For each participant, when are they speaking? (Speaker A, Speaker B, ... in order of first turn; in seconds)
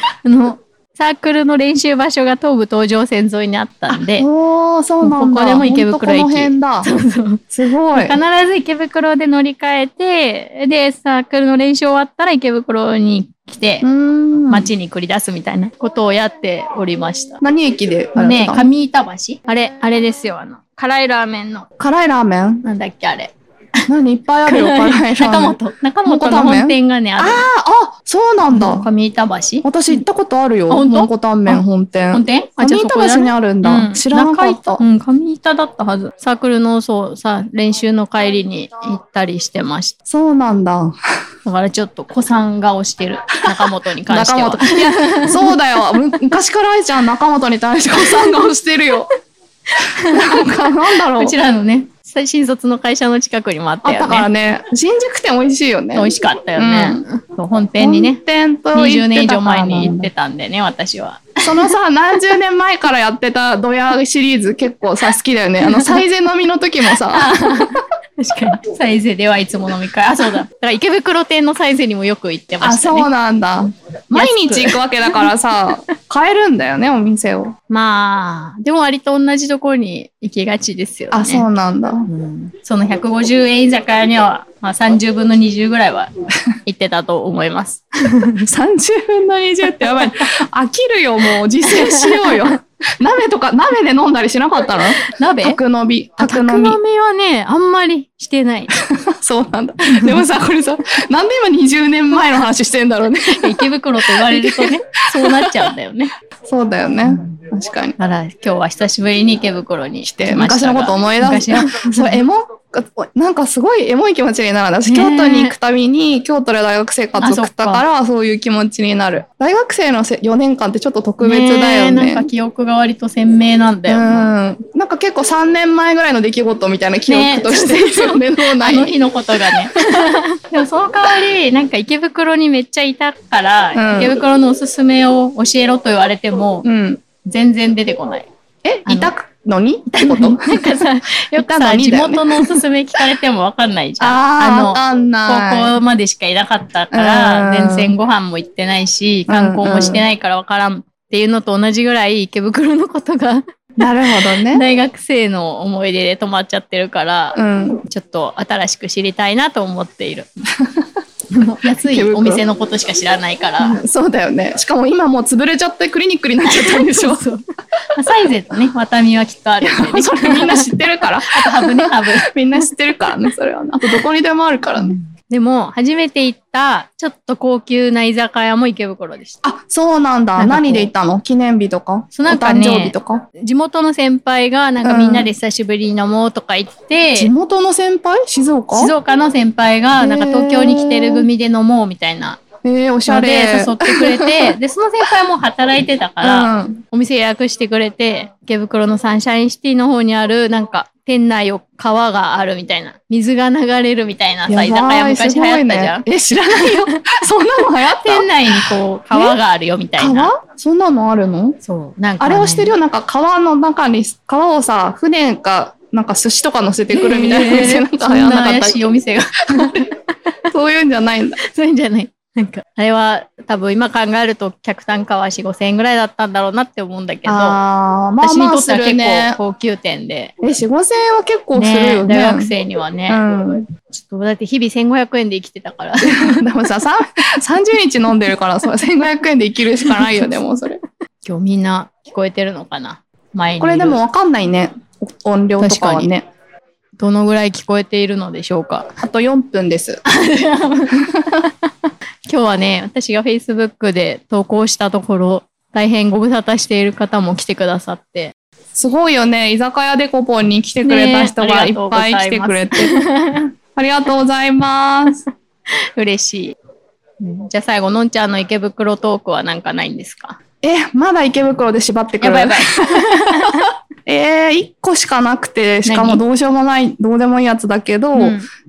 Speaker A: 0.2-4.3, 5.0-13.8, 14.5-17.4, 18.1-21.7, 22.6-23.3, 24.4-27.5, 28.5-30.0, 30.7-39.9, 41.4-45.5, 48.0-48.4, 49.7-54.3, 55.9-58.2, 58.7-61.7, 65.6-66.0, 66.9-73.1, 74.1-75.3, 77.7-81.5, 82.1-86.1, 86.7-88.5, 91.6-92.5, 95.0-95.6, 96.2-98.7, 99.8-100.2, 103.3-106.1, 108.0-112.2, 114.8-115.5, 117.2-117.8, 121.2-124.3, 127.1-136.7, 137.2-138.3, 138.8-139.1, 139.9-153.4, 154.5-160.3, 161.3-163.8, 166.5-167.4, 167.9-170.7, 171.3-172.3, 174.8-179.4, 180.4-180.9, 182.1-187.3, 188.7-192.4, 193.1-207.0, 207.9-210.3, 211.6-212.7, 216.9-219.9, 221.4-227.6, 228.2-230.3, 231.5-233.2, 233.9-236.4, 239.9-240.3, 241.2-244.0, 245.6-246.1, 247.0-248.9, 250.1-251.7, 252.2-258.3, 260.8-263.5, 265.7-266.5, 267.2-270.4, 272.2-273.7, 275.8-276.2, 278.1-278.5
Speaker B: 3.9-6.9, 7.5-8.2, 13.8-14.7, 17.4-18.7, 21.8-22.6, 23.9-28.9, 29.6-34.8, 40.1-40.9, 43.5-49.1, 50.0-51.3, 53.8-57.0, 57.8-60.1, 61.4-67.8, 72.6-77.5, 81.1-82.1, 88.4-96.8, 98.8-105.7, 106.5-108.0, 110.0-122.3, 123.9-129.0, 133.7-134.2, 136.6-137.0, 138.6-142.6, 144.0-145.8, 146.9-147.9, 149.3-150.0, 153.8-154.6, 157.3-157.8, 161.8-162.4, 163.6-167.2, 169.6-174.9, 179.4-183.2, 184.8-185.3, 187.2-188.9, 190.0-191.2, 192.6-194.6, 196.2-196.8, 204.5-209.4, 210.0-211.6, 212.2-218.8, 219.5-219.9, 220.5-221.4, 227.2-229.4, 230.4-232.5, 233.1-233.7, 236.0-240.8, 243.6-246.2, 249.0-250.0, 251.0-251.4, 258.8-262.9, 263.7-265.2, 270.6-278.4